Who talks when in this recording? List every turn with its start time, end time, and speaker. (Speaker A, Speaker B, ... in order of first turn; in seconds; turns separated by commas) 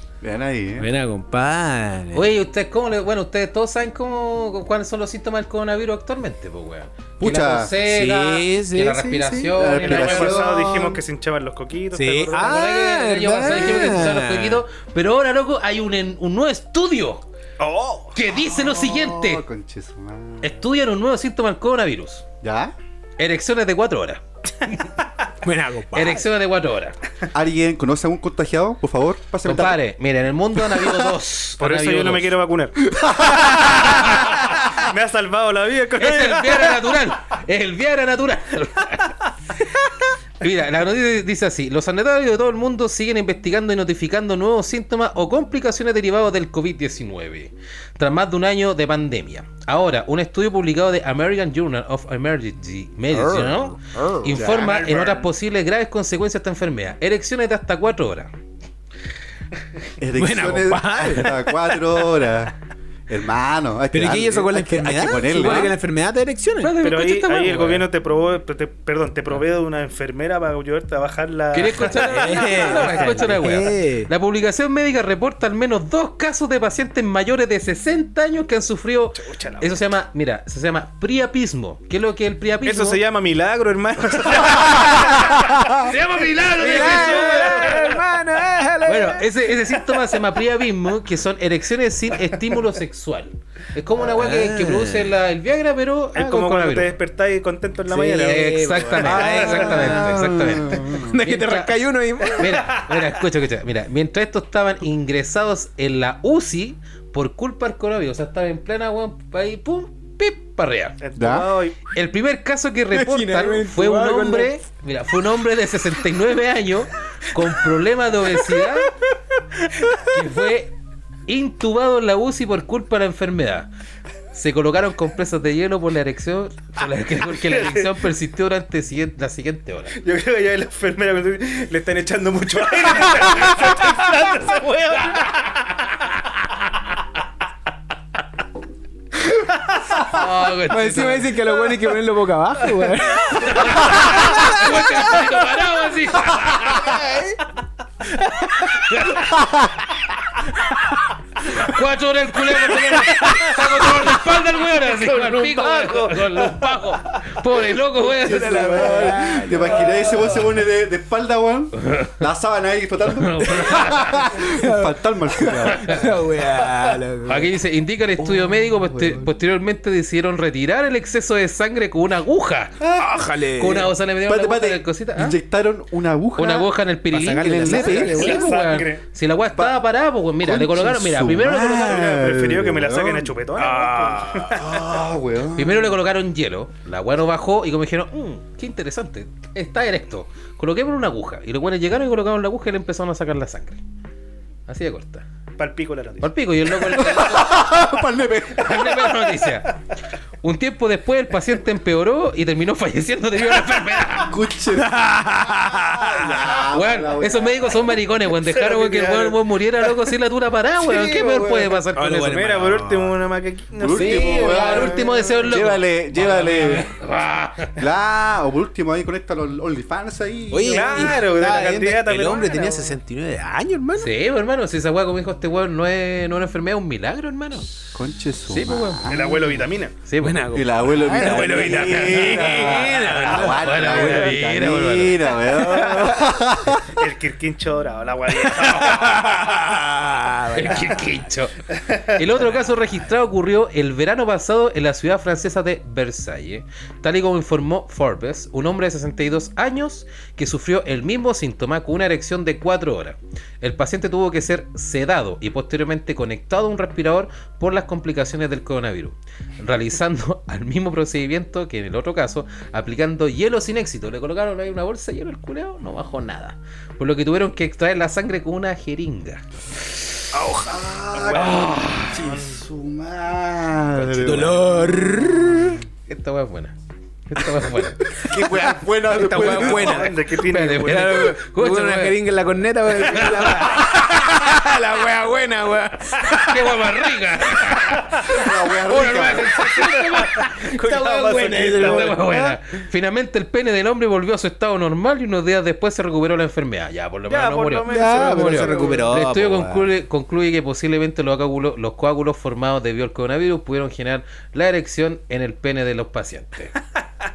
Speaker A: 0.2-0.9, Speaker B: 0.8-2.3, Speaker C: 2.1-10.6, Speaker A: 7.2-7.7, Speaker B: 7.8-9.2, Speaker A: 9.1-11.0, Speaker D: 9.7-12.6, Speaker B: 11.9-14.6, Speaker C: 12.3-17.2, Speaker D: 17.6-18.2, Speaker C: 18.1-19.4, Speaker A: 18.4-20.6, Speaker C: 20.4-22.2, Speaker A: 22.4-22.7, Speaker C: 23.2-24.9, Speaker B: 25.4-26.2, Speaker C: 25.9-27.0, Speaker A: 27.3-29.8, Speaker C: 29.4-32.4, Speaker A: 30.6-31.1, Speaker D: 31.6-32.8, Speaker A: 32.9-34.1, Speaker D: 34.1-36.8, Speaker C: 36.0-39.2, Speaker C: 40.4-58.3, Speaker B: 53.2-54.6, Speaker D: 54.4-55.3, Speaker A: 60.0-62.5, Speaker B: 60.1-62.0, Speaker A: 63.1-65.8, Speaker B: 63.9-66.8, Speaker C: 66.6-67.9, Speaker D: 66.8-73.3, Speaker C: 71.5-83.0, Speaker B: 72.0-74.1, Speaker D: 79.2-79.8, Speaker D: 82.6-85.9, Speaker C: 84.7-85.1, Speaker C: 85.6-87.9, Speaker D: 86.4-88.0, Speaker B: 86.6-89.3, Speaker C: 88.8-97.0, Speaker B: 94.0-95.1, Speaker D: 96.2-99.7, Speaker B: 97.9-102.7, Speaker C: 98.2-111.0, Speaker A: 99.0-101.2, Speaker D: 111.0-111.8, Speaker A: 111.2-111.5, Speaker C: 111.9-119.0, Speaker B: 112.9-114.6, Speaker C: 119.9-120.7, Speaker C: 121.3-123.7, Speaker C: 124.3-130.0, Speaker D: 127.5-127.9, Speaker D: 129.9-135.8, Speaker C: 140.0-141.5, Speaker B: 140.7-144.6, Speaker C: 143.3-147.0, Speaker B: 146.8-147.4, Speaker C: 148.5-149.5, Speaker C: 151.4-159.1, Speaker D: 153.1-153.9, Speaker D: 154.8-156.9, Speaker B: 158.2-160.3, Speaker A: 158.2-166.1, Speaker C: 161.8-162.2, Speaker C: 163.1-164.4, Speaker B: 164.4-167.5, Speaker C: 165.7-166.1, Speaker C: 167.3-172.9, Speaker A: 168.2-169.3, Speaker A: 172.8-173.1, Speaker B: 173.0-173.9, Speaker C: 173.6-175.4, Speaker A: 174.2-176.7, Speaker C: 176.4-182.1, Speaker B: 177.1-178.5, Speaker A: 177.4-178.3, Speaker D: 177.9-179.0, Speaker A: 179.6-179.8, Speaker A: 180.4-183.4, Speaker D: 181.8-184.9, Speaker B: 183.6-184.6, Speaker A: 184.5-186.0, Speaker C: 185.6-193.8, Speaker C: 194.7-195.2, Speaker D: 195.6-196.3, Speaker C: 196.2-197.7, Speaker A: 196.9-199.0, Speaker C: 198.5-199.8, Speaker C: 200.4-204.3, Speaker A: 204.2-205.1, Speaker B: 204.8-206.3, Speaker A: 205.7-207.8, Speaker C: 206.7-212.7, Speaker D: 208.5-209.4, Speaker D: 210.8-214.9, Speaker B: 211.9-213.2, Speaker A: 213.8-216.9, Speaker C: 213.9-217.8, Speaker B: 214.0-214.5, Speaker A: 217.8-221.2, Speaker B: 220.5-224.1, Speaker D: 220.7-223.0, Speaker C: 224.0-227.7, Speaker A: 227.9-229.5, Speaker C: 228.5-230.6, Speaker D: 229.1-229.9, Speaker B: 230.2-234.4, Speaker A: 230.5-237.0, Speaker C: 232.1-235.4, Speaker B: 235.5-236.2, Speaker D: 236.9-239.4, Speaker B: 238.4-241.2, Speaker C: 240.5-269.4, Speaker B: 270.3-270.8, Speaker A: 270.6-275.8, Speaker D: 271.1-272.6, Speaker C: 271.4-271.9, Speaker B: 274.2-275.8, Speaker C: 276.1-276.7, Speaker C: 277.3-278.1, Speaker A: 278.2-280.1, Speaker B: 278.2-280.2, Speaker D: 279.3-281.3, Speaker C: 280.4-282.2, Speaker B: 280.8-286.7, Speaker C: 282.9-283.9, Speaker C: 286.3-306.8, Speaker A: 288.3-289.6, Speaker B: 289.6-292.6, Speaker D: 290.4-292.3, Speaker D: 297.3-299.1, Speaker B: 297.9-299.9